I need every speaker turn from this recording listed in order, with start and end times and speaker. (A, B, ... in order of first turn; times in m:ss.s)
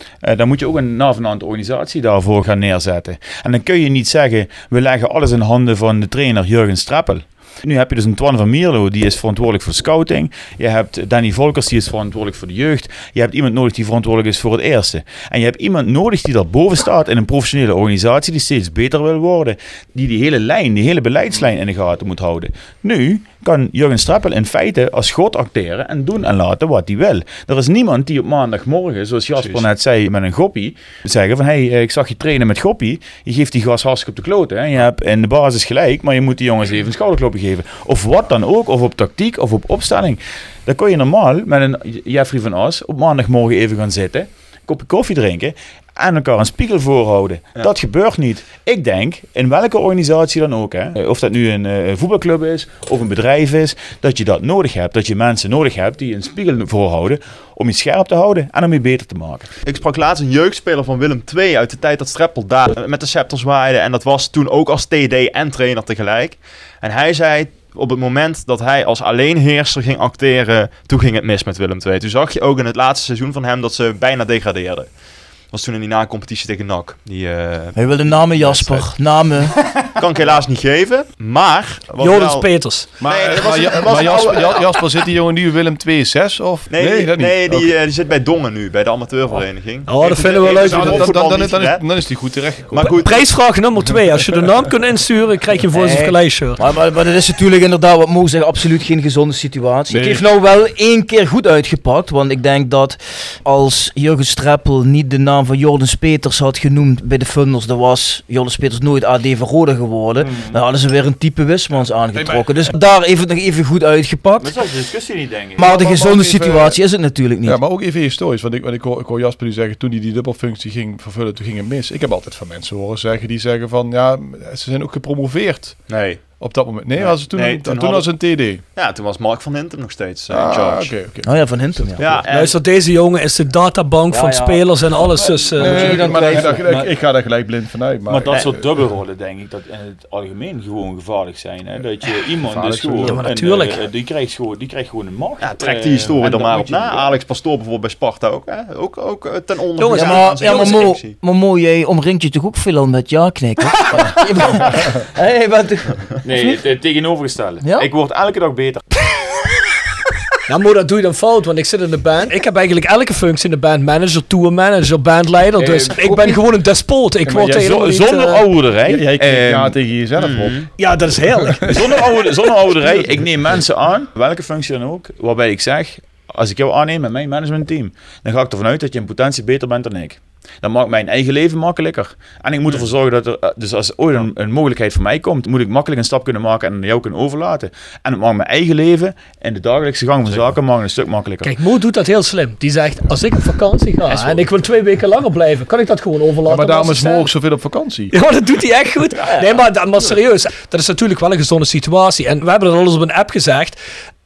0:00.2-0:59.5 A
0:29.4-0:29.7 B
0:59.6-1:18.9 C
1:17.8-1:19.7 D
1:20.0-1:24.8 C
1:22.0-1:22.9 E
1:23.0-1:27.7 B
1:23.6-1:24.0 A
1:26.7-1:31.8 C
1:29.9-1:31.2 E
1:30.5-1:32.9 B
1:32.7-1:33.4 C
1:32.8-1:36.6 E
1:35.7-1:54.5 D
1:39.9-1:40.2 B
1:50.2-1:50.6 A
1:52.1-1:52.7 B
1:54.4-1:55.6 A
1:55.6-1:57.6 D
1:55.6-1:56.8 B
1:57.4-2:08.6 B
2:05.9-2:06.2 C
2:07.0-2:08.2 C
2:08.7-2:10.9 C
2:10.3-2:12.2 B
2:11.2-2:12.2 D
2:12.0-2:12.5 C
2:12.3-2:16.4 E
2:14.1-2:14.7 D
2:15.0-2:16.5 A
2:15.6-2:18.6 B
2:15.6-2:16.7 D
2:18.1-2:27.2 A
2:22.4-2:23.2 B
2:23.0-2:23.8 E
2:25.4-2:31.2 C
2:29.8-2:30.9 E
2:29.9-2:36.5 D
2:36.2-2:39.1 A
2:37.6-2:37.9 D
2:40.5-2:48.4 E
2:45.6-2:46.0 A
2:46.0-2:46.4 B
2:47.2-2:47.8 B
2:47.5-2:49.8 A
2:48.8-2:50.6 B
2:50.2-2:50.6 C
2:50.8-2:51.7 E
2:51.6-3:11.5 A
2:51.6-2:51.9 B
3:11.4-3:17.3 E
3:16.4-3:18.1 B
3:18.1-3:23.8 E